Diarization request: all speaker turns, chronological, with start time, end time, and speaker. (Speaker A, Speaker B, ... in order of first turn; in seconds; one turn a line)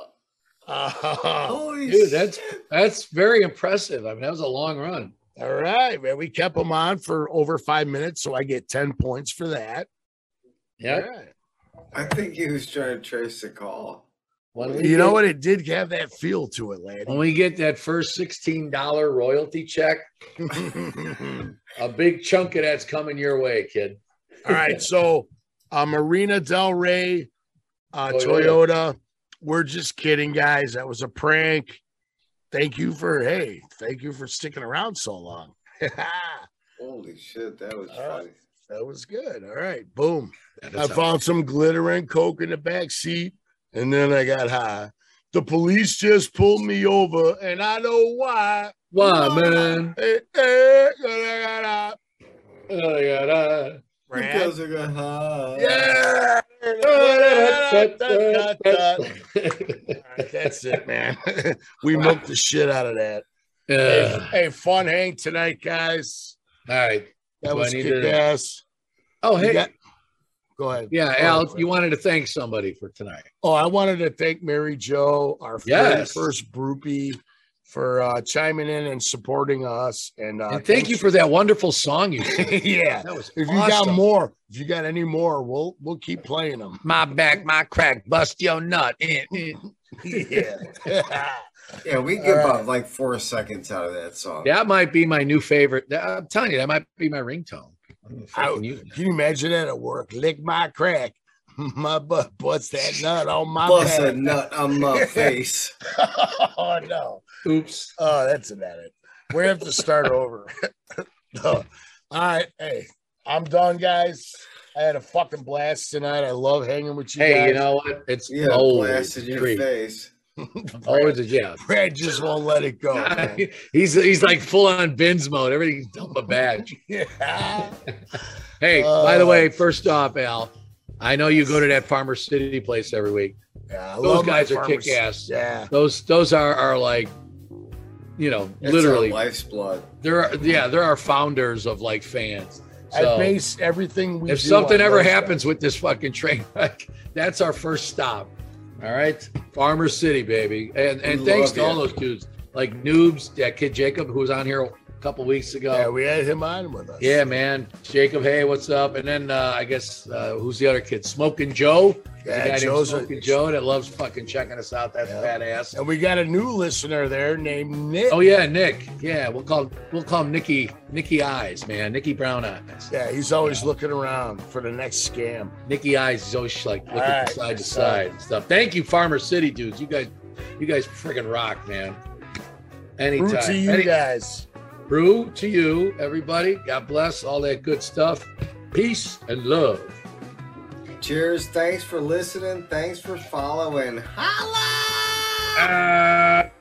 Speaker A: 0.7-1.6
Speaker B: 1.4-2.4
Speaker C: 1.9-5.1
Speaker A: 5.4-9.9
Speaker C: 10.8-11.1
Speaker A: 10.9-11.3
Speaker B: 11.9-14.0
Speaker C: 14.5-15.2
Speaker A: 14.8-17.2
Speaker C: 17.1-20.0
Speaker A: 20.4-21.5
Speaker C: 21.8-24.0
Speaker A: 24.4-27.3
Speaker A: 27.9-31.8
Speaker C: 28.1-28.6
Speaker A: 32.5-36.5
Speaker B: 36.8-38.3
Speaker A: 37.9-52.0
Speaker C: 40.6-41.0
Speaker C: 48.9-49.9
Speaker C: 52.7-53.8
Speaker A: 54.1-54.5
Speaker B: 54.1-56.0
Speaker A: 55.5-59.0
Speaker C: 56.8-60.3
Speaker A: 60.0-63.2
Speaker C: 63.7-64.3
Speaker A: 63.8-66.3
Speaker C: 66.7-68.2
Speaker A: 67.4-68.6
Speaker C: 69.2-69.7
Speaker A: 69.4-69.7
Speaker A: 70.6-71.6
Speaker C: 70.9-73.3
Speaker A: 73.4-81.1
Speaker C: 75.7-76.3
Speaker C: 80.5-84.0
Speaker A: 82.2-86.8
Speaker C: 86.8-90.4
Speaker A: 90.0-91.5
Speaker B: 91.8-94.5
Speaker A: 92.2-92.7
Speaker C: 94.4-98.9
Speaker A: 98.3-104.4
Speaker B: 103.6-105.7
Speaker A: 104.9-105.3
Speaker A: 105.9-107.2
Speaker C: 107.4-107.9
Speaker A: 108.0-110.5
Speaker A: 111.3-117.6
Speaker C: 117.2-119.6
Speaker B: 118.3-120.1
Speaker A: 120.4-123.4
Speaker C: 120.8-121.6
Speaker C: 122.9-126.8
Speaker A: 126.8-127.8
Speaker C: 128.6-133.3
Speaker A: 128.7-129.6
Speaker A: 133.7-135.7
Speaker C: 134.0-137.1
Speaker C: 138.2-139.2
Speaker B: 138.6-139.9
Speaker C: 140.0-143.4
Speaker A: 142.9-145.4
Speaker C: 144.3-155.9
Speaker B: 151.0-152.0
Speaker A: 155.7-157.2
Speaker C: 157.0-165.8
Speaker A: 162.2-163.3
Speaker A: 165.1-168.2
Speaker C: 168.1-172.9
Speaker A: 172.9-175.5
Speaker C: 175.7-182.0
Speaker A: 176.9-178.0
Speaker C: 183.0-183.9
Speaker A: 183.2-184.4
Speaker C: 184.9-190.0
Speaker B: 191.0-195.4
Speaker C: 195.5-196.5